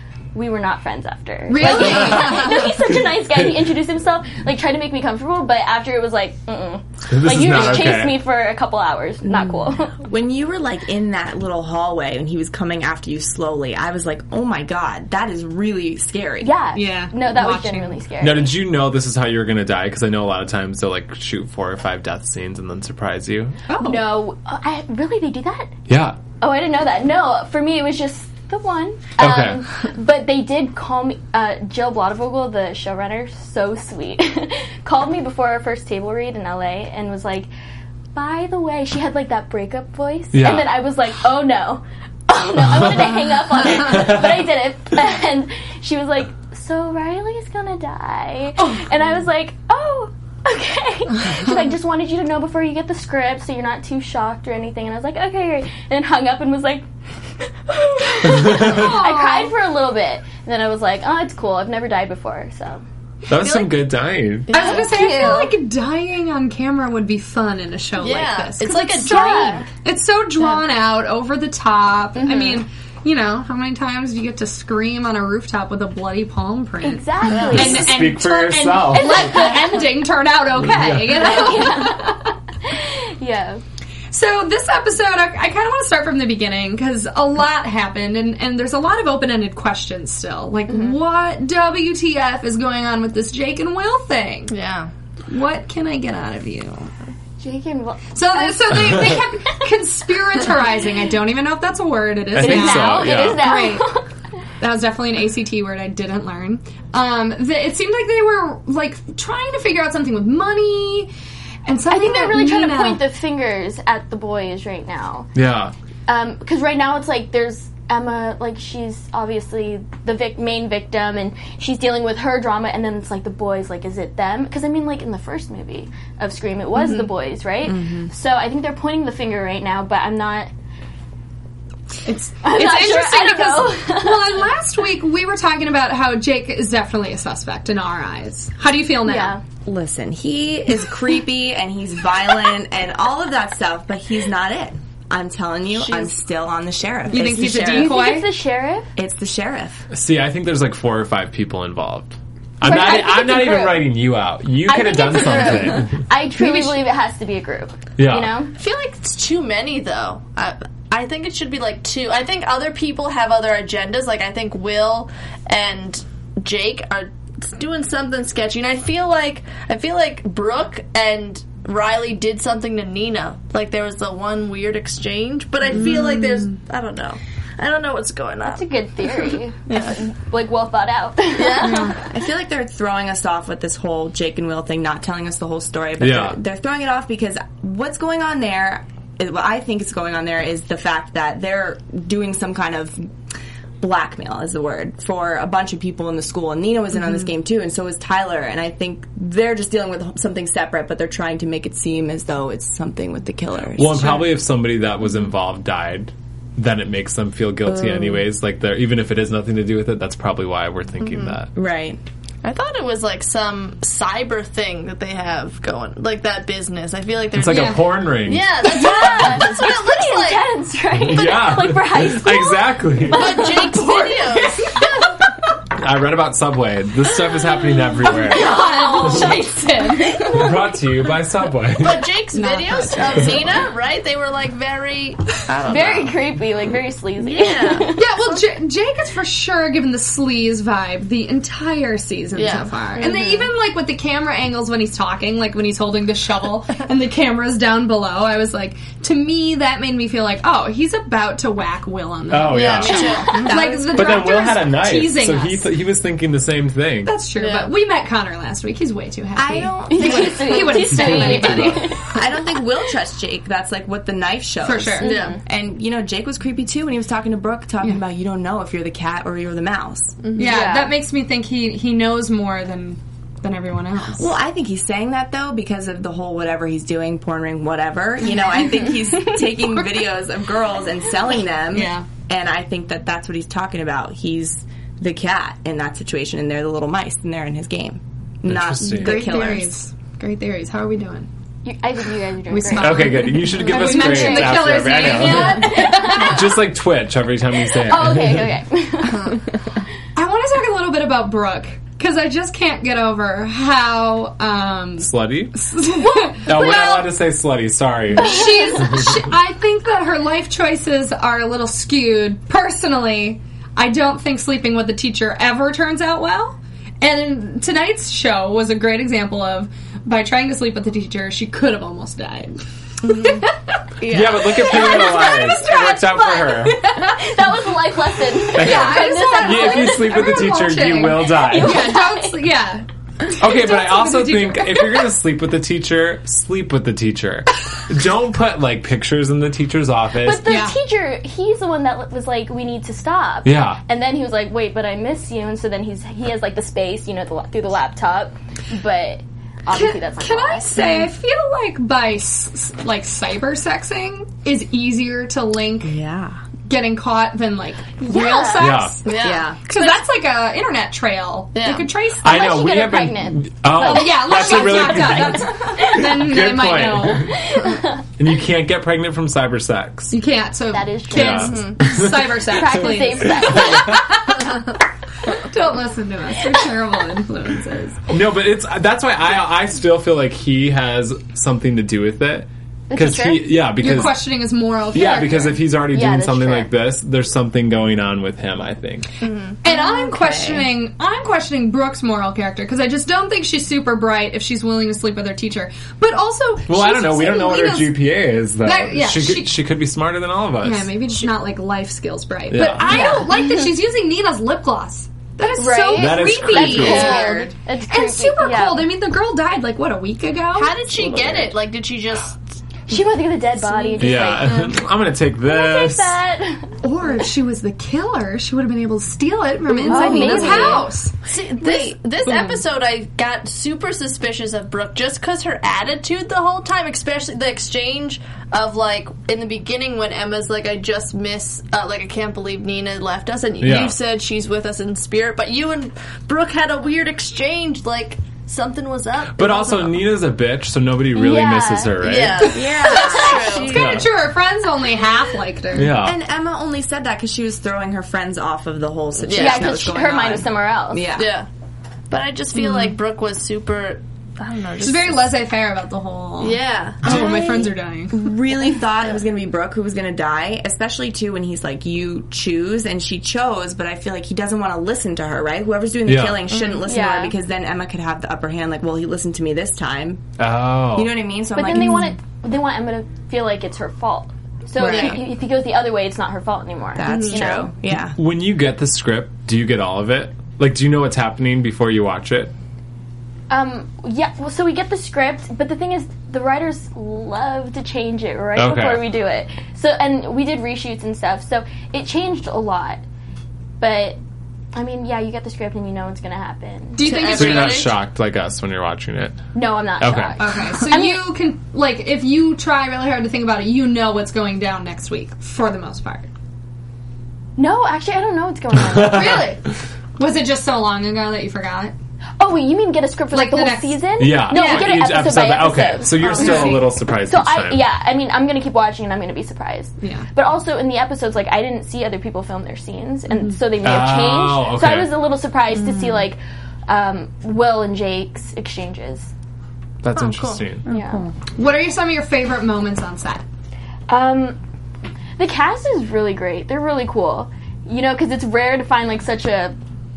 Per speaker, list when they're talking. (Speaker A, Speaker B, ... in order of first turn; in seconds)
Speaker A: 0.3-9.9, 16.4-18.6, 23.8-25.7, 26.4-37.5, 38.1-56.9, 57.4-62.8, 64.5-65.6, 69.1-69.7, 72.2-72.6, 76.8-79.8, 81.2-83.6, 90.7-91.0, 97.4-99.6, 102.4-104.1, 111.9-115.3, 116.1-130.5, 132.4-134.5, 139.1-139.4, 147.7-148.9, 152.6-153.9, 154.6-158.5, 178.4-182.0, 218.6-224.8, 228.3-230.5, 235.7-238.1, 243.0-243.5, 259.9-262.0, 265.0-265.4, 270.4-270.9, 291.6-296.4, 297.8-299.4, 306.0-306.6, 308.2-308.8, 327.0-330.3, 331.2-332.4, 340.2-351.1, 358.1-358.7, 362.2-364.8, 367.2-368.0, 370.7-371.6, 372.5-374.1, 382.9-383.7, 385.9-386.7, 402.9-403.7, 405.6-408.9, 412.9-414.7, 415.4-416.8, 419.8-420.9, 441.1-442.1, 449.4-451.1, 466.9-467.4, 471.6-477.7, 483.5-493.0, 493.8-494.2, 494.7-497.1, 499.5-501.3, 507.6-509.5, 512.4-529.3, 530.9-531.2, 534.1-534.6, 535.4-539.8
Speaker B: 1.5-2.5, 16.7-18.0, 23.7-24.1, 58.3-59.6, 64.5-82.3, 84.1-94.5, 95.3-96.9, 98.1-104.0, 104.6-111.1, 111.7-113.0, 132.1-139.4, 147.1-148.3, 156.4-156.8, 175.7-176.5, 181.6-181.9, 224.3-224.9, 228.1-230.4, 232.3-233.5, 237.9-255.7, 257.1-262.1, 264.6-265.2, 270.4-274.3, 281.7-282.1, 288.8-291.3, 292.5-296.6, 300.1-307.1, 308.1-323.5, 324.4-327.2, 328.5-335.1, 340.4-340.8, 349.7-356.0, 356.7-362.5, 363.8-367.3, 370.1-374.5, 375.3-378.1, 383.8-385.7, 389.6-399.6, 400.6-410.8, 416.8-422.6, 443.0-446.0, 454.8-458.4, 497.0-497.8, 500.4-506.3, 509.0-509.6, 510.2-511.9, 513.3-514.9, 516.2-516.9, 520.0-520.3, 531.5-533.4
Speaker C: 1.9-2.5, 7.1-8.2, 18.2-23.6, 25.9-26.2, 29.2-29.6, 40.3-40.8, 42.6-43.2, 43.8-44.5, 58.2-58.9, 63.3-64.5, 77.3-79.5, 80.6-81.3, 102.3-103.6, 115.3-115.7, 149.9-156.1, 158.0-158.4, 186.0-186.4, 203.8-211.5, 217.3-218.5, 221.0-223.5, 225.8-229.4, 230.2-232.2, 252.3-253.3, 253.9-257.2, 261.1-261.4, 288.5-289.4, 292.7-298.5, 305.0-305.6, 306.4-309.2, 324.0-326.8, 328.5-332.0, 333.4-340.5, 343.4-343.8, 358.6-359.1, 362.2-367.5, 368.2-370.2, 371.1-374.2, 378.1-384.3, 384.9-389.1, 396.7-400.9, 402.5-403.2, 405.9-407.3, 410.8-411.6, 414.0-416.2, 433.6-434.0, 439.2-442.6, 443.7-444.1, 445.7-446.2, 466.1-466.5, 470.4-471.2, 478.1-482.5, 488.6-489.1, 497.2-499.4, 500.0-500.4, 508.7-509.5, 514.2-517.9, 523.8-525.1, 530.0-530.9
Speaker D: 9.2-16.5, 127.6-128.1, 139.7-148.0, 149.0-149.9, 182.1-193.1, 193.8-204.3, 207.7-208.2, 211.6-212.0, 253.3-254.2, 259.4-260.9, 262.1-270.2, 274.2-289.8, 355.8-356.4, 359.2-359.9, 389.6-390.7, 442.5-444.1, 446.0-451.4, 457.0-470.3, 470.9-472.2, 474.8-475.2, 477.0-478.2, 530.9-531.3
Speaker E: 63.4-63.7, 64.5-65.5, 68.0-69.7, 77.3-77.8, 94.5-94.9, 158.5-180.0, 181.3-182.0, 211.0-211.4, 212.4-220.5, 223.1-224.8, 231.8-236.2, 237.2-238.4, 242.3-242.7, 252.4-253.7, 257.3-257.7, 265.0-265.4, 270.2-270.6, 293.6-293.9, 295.1-295.7, 299.1-299.4, 323.0-323.5, 324.0-325.0, 359.1-359.5, 361.5-361.9, 371.5-371.8, 389.2-389.6, 406.8-407.5, 410.5-412.4, 413.5-414.8, 419.8-440.1, 442.0-443.9, 449.2-449.8, 451.1-451.5, 452.1-455.4, 456.4-457.2, 466.5-466.8, 474.8-475.2, 477.1-477.6, 497.0-498.0, 530.1-530.6